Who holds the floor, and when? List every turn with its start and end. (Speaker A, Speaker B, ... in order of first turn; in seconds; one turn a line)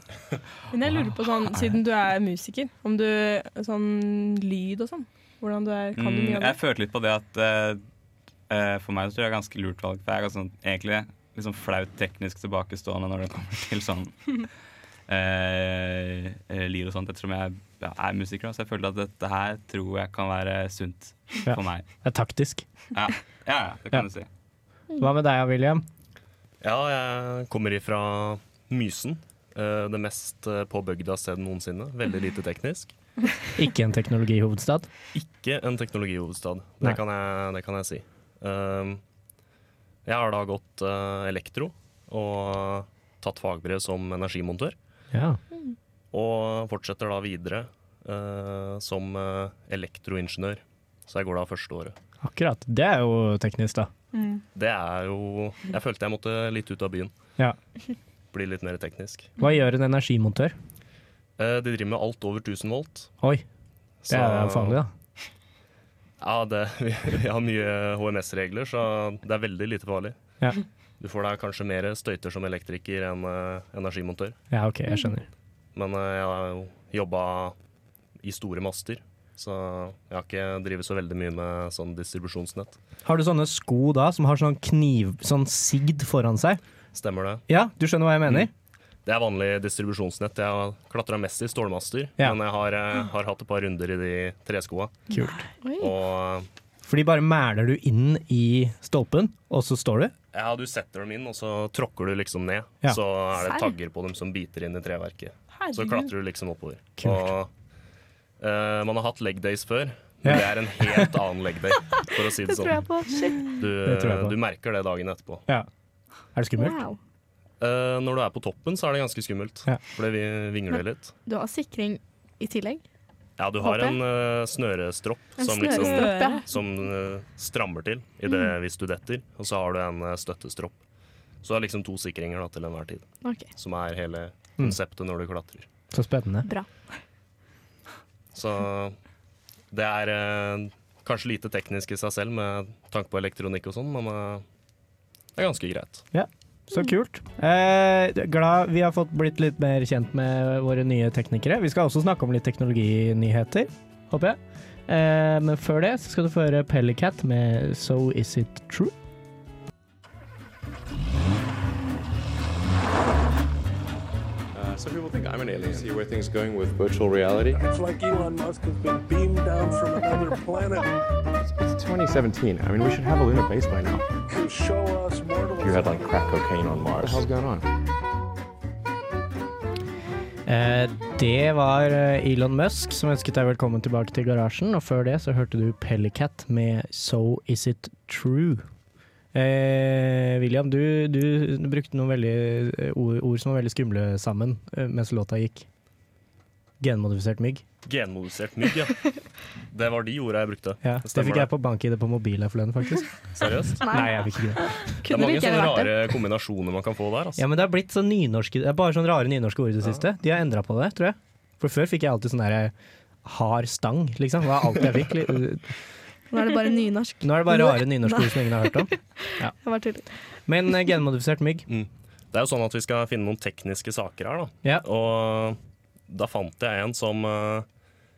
Speaker A: 0.7-6.6
Speaker B: 0.9-1.8
Speaker B: 5.9-7.8
Speaker B: 8.5-14.4
Speaker B: 15.1-21.9
Speaker C: 21.4-22.6
Speaker B: 22.9-24.3
Speaker C: 25.0-25.8
Speaker D: 26.6-32.9
Speaker C: 33.5-34.9
Speaker D: 35.1-39.0
Speaker D: 40.0-44.7
Speaker C: 45.1-45.4
Speaker D: 46.1-51.9
Speaker C: 52.2-53.9
Speaker D: 54.5-57.1
Speaker D: 58.3-59.3
Speaker C: 59.4-60.5
Speaker D: 61.4-63.1
Speaker D: 64.0-64.8
Speaker C: 64.1-64.9
Speaker D: 66.2-70.2
Speaker D: 71.0-74.4
Speaker C: 74.5-75.2
Speaker D: 75.7-77.5
Speaker D: 78.2-82.8
Speaker C: 83.0-86.6
Speaker D: 86.9-87.4
Speaker C: 87.5-88.5
Speaker D: 89.0-95.0
Speaker C: 95.1-95.4
Speaker E: 95.6-95.9
Speaker D: 95.8-96.5
Speaker C: 96.8-100.1
Speaker D: 100.3-107.5
Speaker E: 103.4-103.7
Speaker A: 105.5-106.1
Speaker C: 107.0-107.3
Speaker D: 108.4-112.8
Speaker C: 110.2-111.1
Speaker E: 112.4-113.6
Speaker D: 113.5-115.4
Speaker C: 113.8-114.3
Speaker C: 116.3-116.8
Speaker E: 116.6-117.0
Speaker D: 117.6-121.1
Speaker E: 121.2-122.8
Speaker D: 123.4-130.8
Speaker E: 123.6-124.0
Speaker E: 125.4-126.4
Speaker A: 125.6-126.5
Speaker D: 131.4-133.0
Speaker D: 133.6-135.7
Speaker C: 135.9-136.5
Speaker D: 138.3-138.9
Speaker D: 139.7-144.4
Speaker D: 145.3-146.0
Speaker C: 146.1-158.9
Speaker F: 164.5-167.6
Speaker G: 167.5-171.0
Speaker F: 171.4-174.0
Speaker G: 174.3-176.4
Speaker F: 175.6-177.7
Speaker G: 177.0-177.2
Speaker C: 180.5-188.6
Speaker C: 189.3-195.7
Speaker C: 196.8-197.6
Speaker D: 197.8-199.0
Speaker D: 199.7-201.5
Speaker C: 200.8-203.1
Speaker D: 203.3-203.8
Speaker E: 203.8-206.1
Speaker C: 203.9-204.7
Speaker D: 205.0-207.4
Speaker C: 207.4-212.7
Speaker C: 213.2-215.7
Speaker E: 216.3-220.1
Speaker C: 217.2-219.5
Speaker C: 220.5-221.7
Speaker D: 221.7-225.6
Speaker D: 226.1-227.7